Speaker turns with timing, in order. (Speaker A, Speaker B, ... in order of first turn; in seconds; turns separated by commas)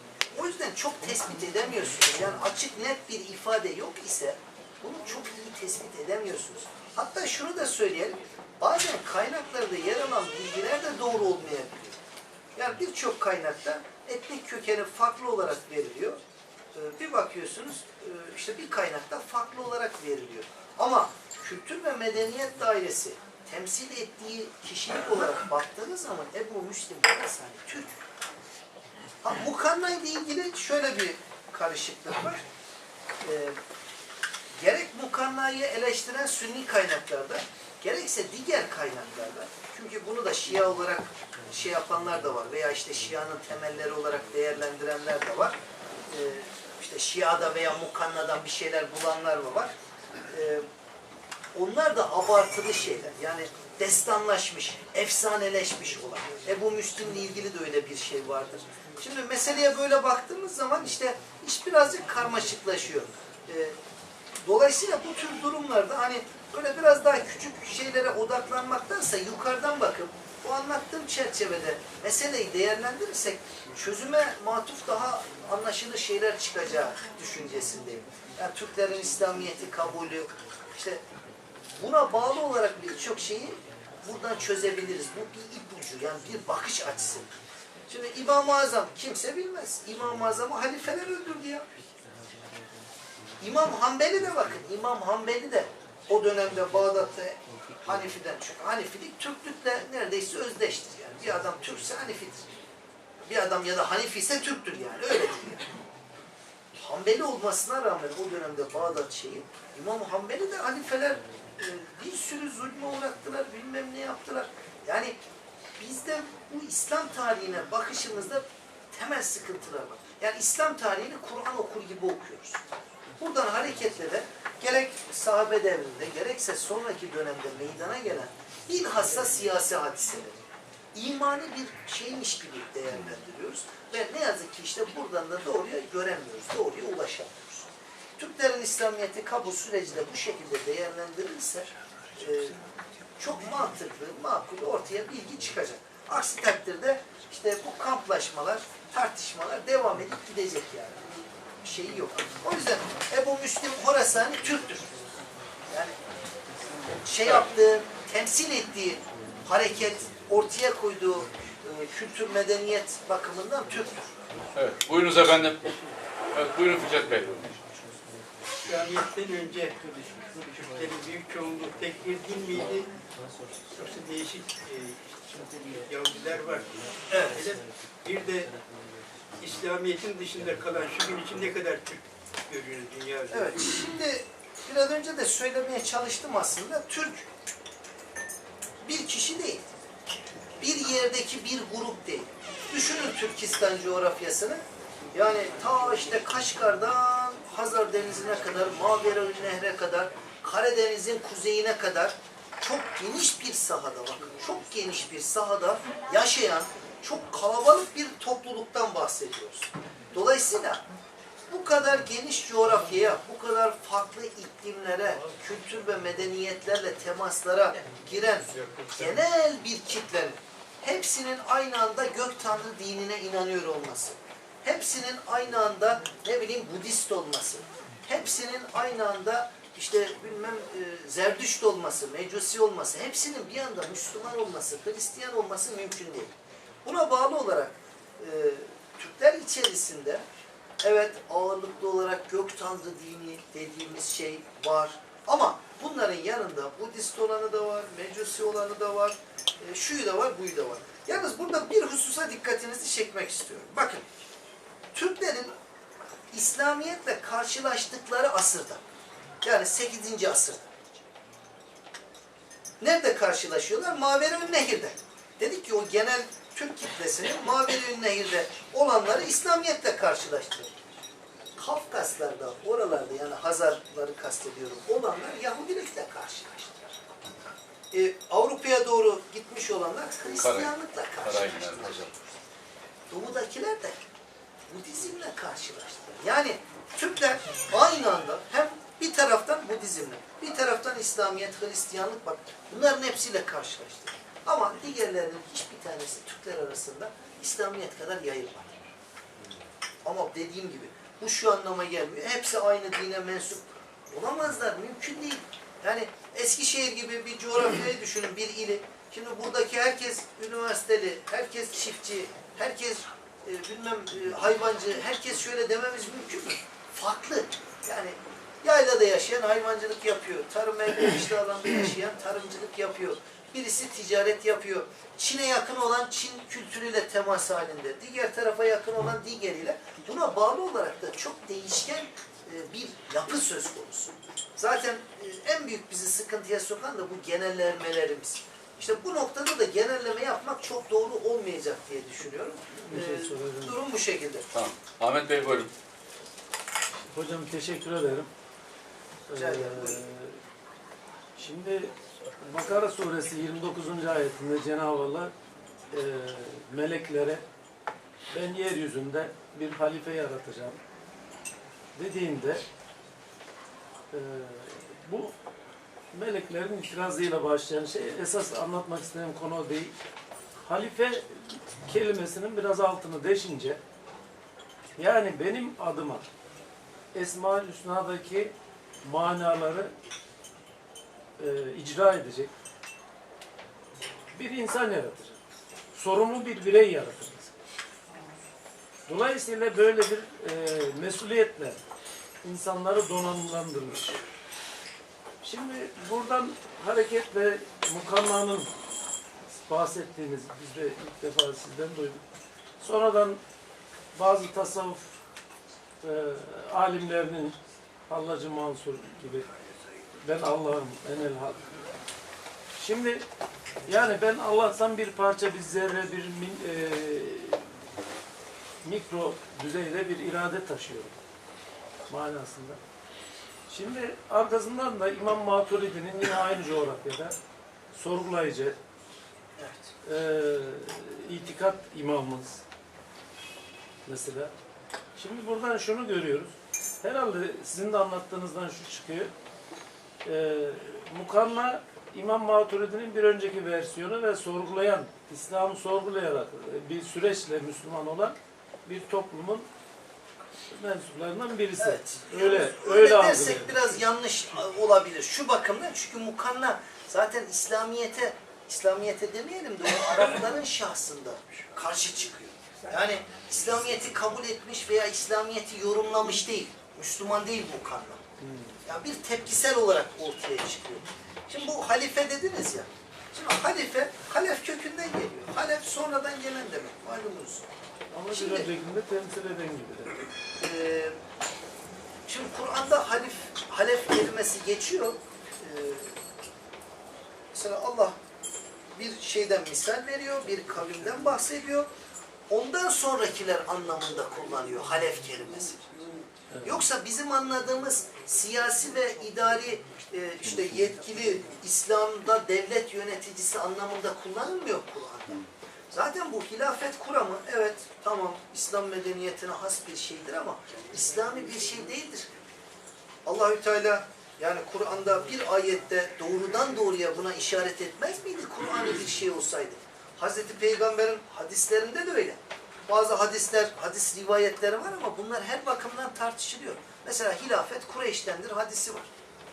Speaker A: 0.3-12.0, Speaker A: 12.6-16.2, Speaker A: 16.7-28.0, Speaker A: 29.2-32.4, Speaker A: 33.2-33.6, Speaker A: 34.6-45.6, Speaker A: 46.1-49.7, Speaker A: 50.3-50.7, Speaker A: 51.5-63.8, Speaker A: 64.4-81.0, Speaker A: 81.8-87.3, Speaker A: 87.9-91.7, Speaker A: 93.4-102.5, Speaker A: 103.3-105.7, Speaker A: 106.8-115.2, Speaker A: 115.8-122.6, Speaker A: 123.2-130.4, Speaker A: 130.9-137.7, Speaker A: 138.2-142.6, Speaker A: 143.2-154.9, Speaker A: 155.7-156.0, Speaker A: 157.0-164.1, Speaker B: 164.6-165.6, Speaker B: 166.3-167.5, Speaker C: 168.7-172.9, Speaker C: 173.7-178.6, Speaker A: 177.1-177.5, Speaker C: 179.4-183.8, Speaker A: 183.3-187.3, Speaker A: 188.8-189.7, Speaker A: 190.6-210.8, Speaker A: 211.5-236.3, Speaker A: 236.8-240.2, Speaker A: 240.8-254.1, Speaker A: 254.9-255.6, Speaker A: 256.3-258.8, Speaker A: 259.4-260.7, Speaker A: 262.8-270.7, Speaker A: 271.6-277.0, Speaker A: 277.9-282.2, Speaker B: 280.4-282.1, Speaker A: 283.1-284.0, Speaker A: 284.7-298.8, Speaker A: 300.0-344.5, Speaker D: 342.8-343.8, Speaker B: 344.5-345.7, Speaker D: 347.1-348.3, Speaker D: 349.3-350.4, Speaker A: 349.3-350.0, Speaker D: 351.4-355.3, Speaker D: 355.9-357.4, Speaker D: 358.3-360.8, Speaker D: 362.0-362.6, Speaker D: 364.1-365.3, Speaker D: 366.1-369.9, Speaker D: 370.7-373.8, Speaker D: 375.0-376.3, Speaker D: 377.1-379.9, Speaker D: 381.4-382.5, Speaker D: 384.3-385.4, Speaker D: 385.9-387.5, Speaker D: 389.1-391.8, Speaker D: 392.4-394.2, Speaker D: 395.4-398.7, Speaker D: 399.7-402.2, Speaker D: 402.8-403.4, Speaker D: 404.1-405.2, Speaker D: 406.0-407.6, Speaker D: 408.1-409.5, Speaker D: 410.2-411.7, Speaker D: 412.8-413.2, Speaker D: 413.9-417.7, Speaker D: 418.8-421.2, Speaker D: 422.1-422.8, Speaker D: 423.7-427.4, Speaker D: 427.9-428.8, Speaker A: 429.6-429.9, Speaker D: 430.1-432.6, Speaker D: 434.1-434.5, Speaker D: 435.2-439.3, Speaker D: 440.2-448.4, Speaker D: 448.9-449.7, Speaker D: 450.7-453.9, Speaker A: 451.8-468.2, Speaker D: 468.4-468.8, Speaker A: 468.9-477.6, Speaker D: 478.1-480.3, Speaker A: 478.3-478.7, Speaker A: 480.6-481.2, Speaker A: 482.3-486.2, Speaker A: 487.5-488.2, Speaker A: 488.9-491.9, Speaker A: 492.5-495.9, Speaker D: 496.5-496.8, Speaker A: 496.6-512.3, Speaker A: 513.3-529.1